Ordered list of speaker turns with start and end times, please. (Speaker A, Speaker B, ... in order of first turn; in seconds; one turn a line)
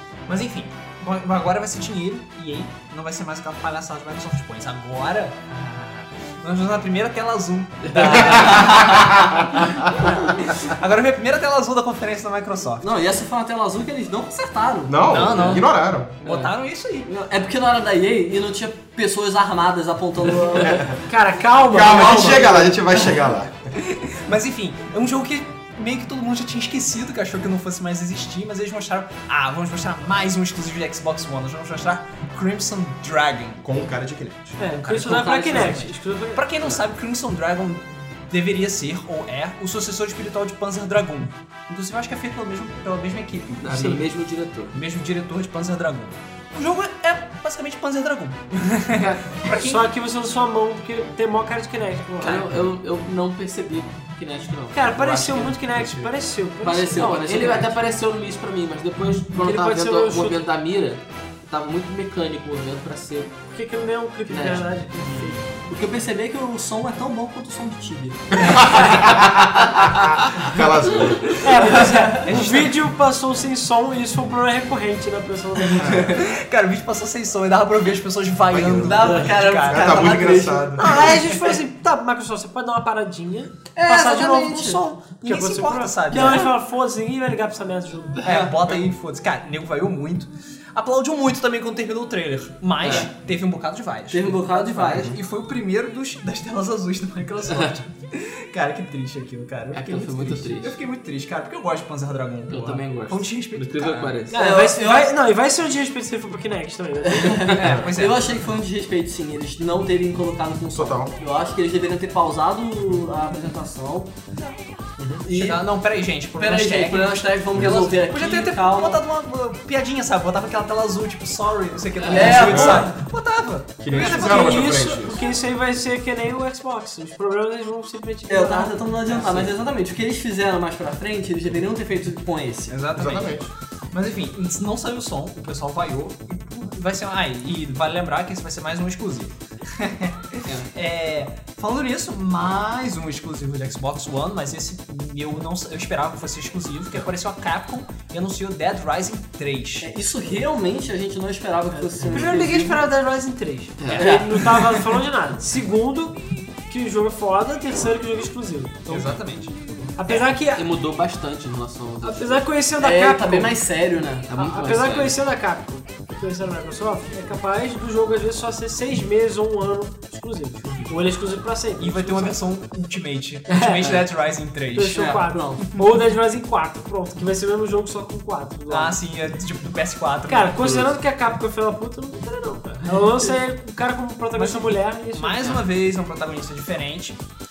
Speaker A: 0.3-9.0
Speaker B: 7.8-9.0
Speaker C: 7.9-10.5
Speaker D: 9.9-10.4
Speaker A: 10.4-12.9
Speaker C: 12.8-15.0
Speaker E: 14.9-16.1
Speaker A: 15.1-17.1
Speaker B: 15.3-15.6
Speaker B: 16.2-16.5
Speaker C: 17.1-21.0
Speaker D: 21.1-22.8
Speaker E: 21.7-23.5
Speaker C: 22.3-22.6
Speaker A: 23.8-33.6
Speaker E: 33.6-34.6
Speaker D: 34.6-36.5
Speaker A: 34.6-44.0
Speaker B: 35.1-35.8
Speaker B: 43.6-44.7
Speaker A: 44.7-49.8
Speaker B: 48.9-49.4
Speaker D: 49.4-52.5
Speaker B: 52.2-55.6
Speaker D: 54.7-57.3
Speaker C: 56.6-57.8
Speaker B: 56.9-63.4
Speaker D: 59.3-60.4
Speaker D: 63.5-65.5
Speaker B: 64.3-64.7
Speaker A: 65.0-65.3
Speaker C: 65.7-68.8
Speaker E: 68.4-71.7
Speaker D: 71.3-76.3
Speaker C: 71.7-72.2
Speaker A: 72.2-72.8
Speaker E: 75.8-76.1
Speaker A: 75.9-80.2
Speaker E: 78.5-81.1
Speaker C: 78.7-80.9
Speaker D: 80.8-88.2
Speaker A: 81.0-81.4
Speaker C: 83.7-84.8
Speaker A: 85.2-86.5
Speaker C: 86.1-86.5
Speaker A: 88.2-104.1
Speaker C: 88.2-88.8
Speaker B: 92.8-93.1
Speaker C: 94.1-95.2
Speaker B: 99.7-100.8
Speaker B: 102.5-104.4
Speaker D: 104.3-107.7
Speaker C: 104.3-105.1
Speaker C: 107.1-114.1
Speaker A: 107.5-108.4
Speaker E: 110.7-111.1
Speaker A: 114.3-114.6
Speaker C: 115.2-115.6
Speaker A: 115.2-124.9
Speaker C: 116.4-119.0
Speaker B: 122.0-122.4
Speaker C: 122.1-122.9
Speaker E: 122.4-122.9
Speaker E: 123.8-125.2
Speaker D: 123.9-128.8
Speaker C: 128.3-132.7
Speaker A: 132.7-149.9
Speaker E: 132.9-133.5
Speaker C: 149.8-152.9
Speaker D: 152.1-159.1
Speaker B: 153.8-154.1
Speaker A: 153.8-154.1
Speaker C: 154.0-154.3
Speaker A: 158.9-160.2
Speaker D: 159.9-160.6
Speaker B: 160.5-162.4
Speaker D: 162.0-163.6
Speaker C: 162.8-164.3
Speaker B: 164.3-165.2
Speaker D: 164.3-172.3
Speaker A: 171.8-175.2
Speaker D: 173.5-174.0
Speaker D: 174.7-178.9
Speaker C: 174.9-175.7
Speaker A: 178.7-180.9
Speaker D: 180.3-185.6
Speaker A: 184.3-187.2